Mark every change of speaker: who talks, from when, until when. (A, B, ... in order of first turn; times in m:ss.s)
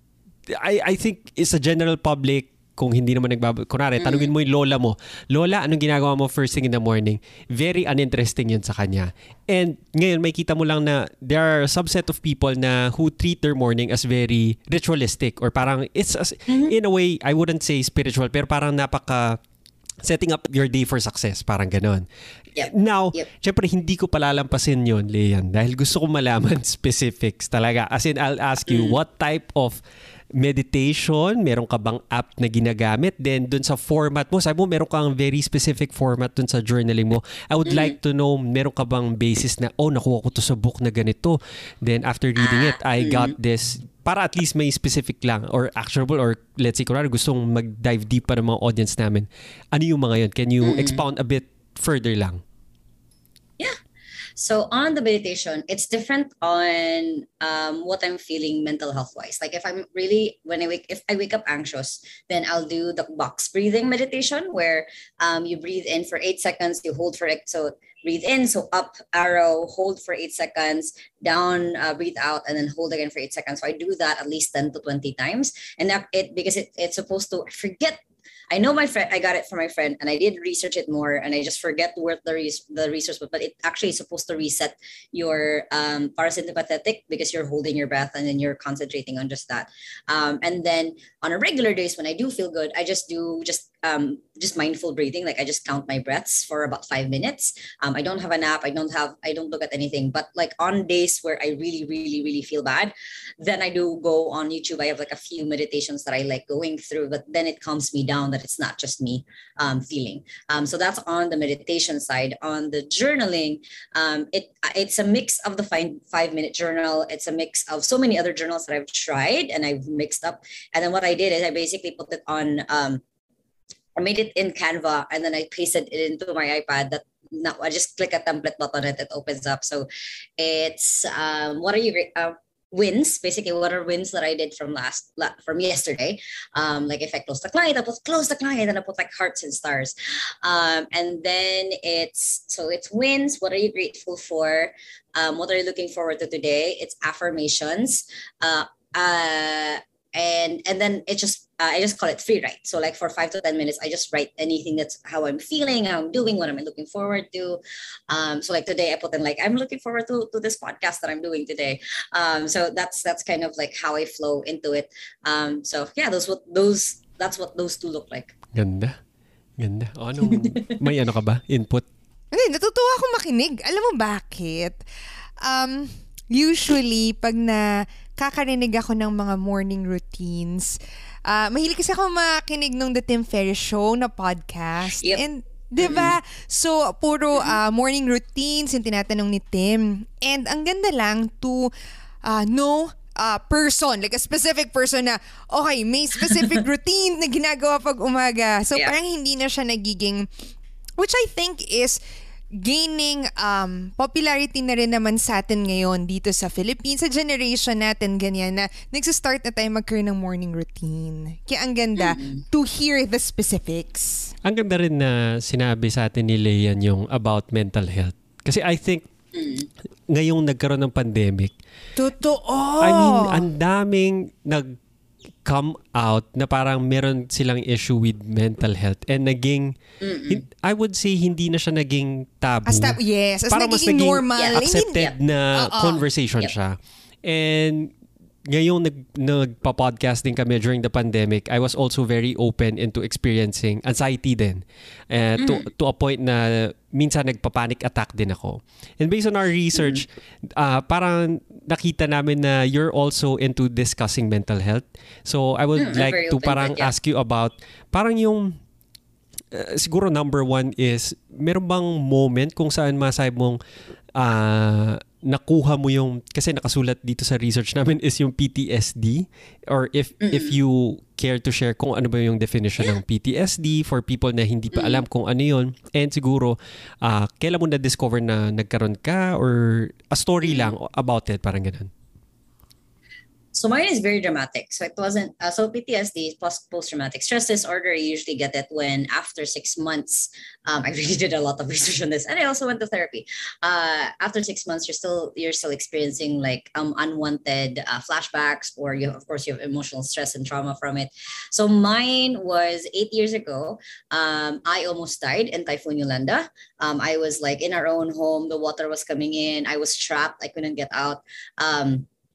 0:00.5-0:19.4 A
0:04.0-0:04.3 B
0:16.5-0:16.7 B
0:20.0-0:22.0 A
0:22.6-0:23.3 B
0:22.7-0:29.8 A
0:28.7-0:29.0 B
0:30.4-0:52.4 A
0:37.7-0:38.0 B
0:42.4-0:43.3 B
0:50.6-0:51.0 B
0:54.4-1:18.0 B
1:18.5-2:03.0 B
2:04.0-2:48.3 B
2:48.5-2:49.0 A
2:49.6-2:51.9 A
2:50.3-2:50.7 B
2:52.3-2:54.8 C
2:55.4-3:11.7 C
3:05.8-3:06.2 B
3:12.2-3:20.3 C
3:21.0-3:22.0 C
3:22.5-3:34.3 C
3:32.0-3:32.4 B
3:34.4-3:39.1 A
3:39.3-3:39.7 B
3:40.1-3:41.5 A
3:42.0-3:43.4 C
3:42.8-3:44.8 A
3:45.4-3:53.0 A
3:50.0-3:50.4 B
3:52.7-3:56.1 C
3:53.5-3:57.9 A
3:54.4-3:55.1 B
3:58.5-4:18.6 A
4:05.4-4:05.6 B
4:15.8-4:16.9 B
4:19.5-4:23.6 A
4:24.2-4:41.9 A
4:30.2-4:30.6 B
4:34.7-4:35.0 B
4:40.4-4:40.8 B
4:43.5-5:12.1 B